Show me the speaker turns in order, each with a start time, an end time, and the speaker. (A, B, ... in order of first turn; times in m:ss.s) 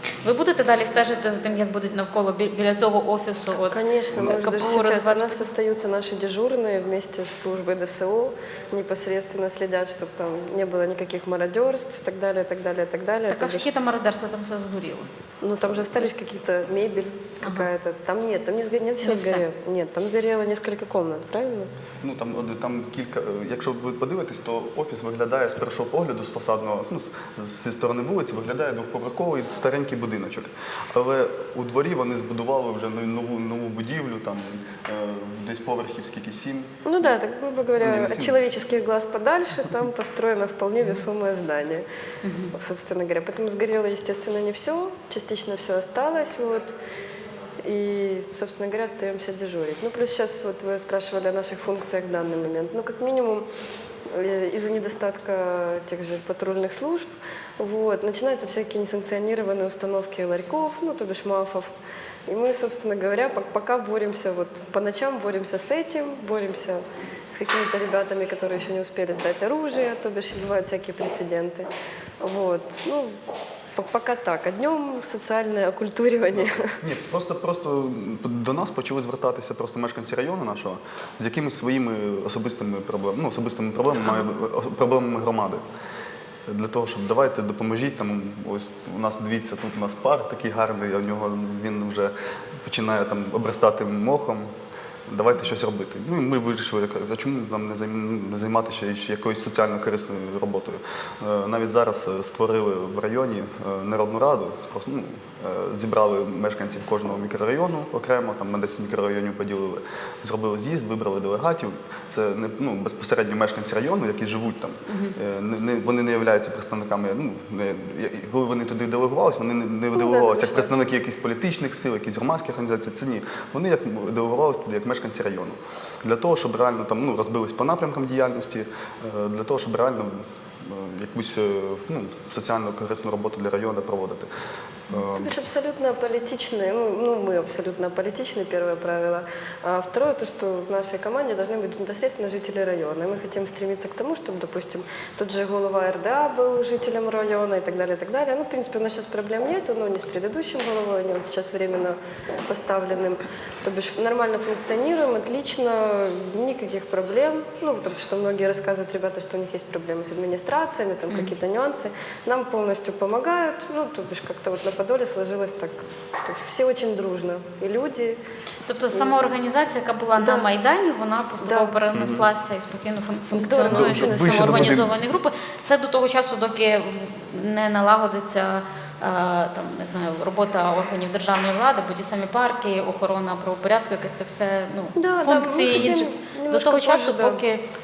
0:00.2-0:05.5 A
0:03.7-0:13.7 B
0:04.2-0:04.5 C
0:13.3-0:15.1 A
0:15.4-0:21.7 B
0:17.4-0:17.7 A
0:19.0-0:19.4 A
0:22.0-0:37.1 C
0:36.9-0:41.8 B
0:37.8-0:38.4 C
0:42.2-0:42.5 A
0:42.5-0:46.7 B
0:47.6-0:53.5 B
0:54.1-1:01.7 B
1:02.3-1:11.7 B
1:12.2-1:13.2 B
1:13.8-1:16.8 B
1:16.8-1:25.6 C
1:26.5-1:32.1 C
1:32.6-1:34.5 C
1:35.1-2:14.3 C
1:54.9-1:55.2 A
2:00.0-2:00.8 B
2:14.9-2:15.4 C
2:15.1-2:48.2 B
2:48.7-3:07.6 A
2:48.9-2:49.2 B
2:50.2-2:50.5 B
2:51.4-2:51.8 B
2:51.9-2:52.3 C
2:53.3-2:54.8 B
2:53.6-2:54.9 C
3:05.0-3:07.4 B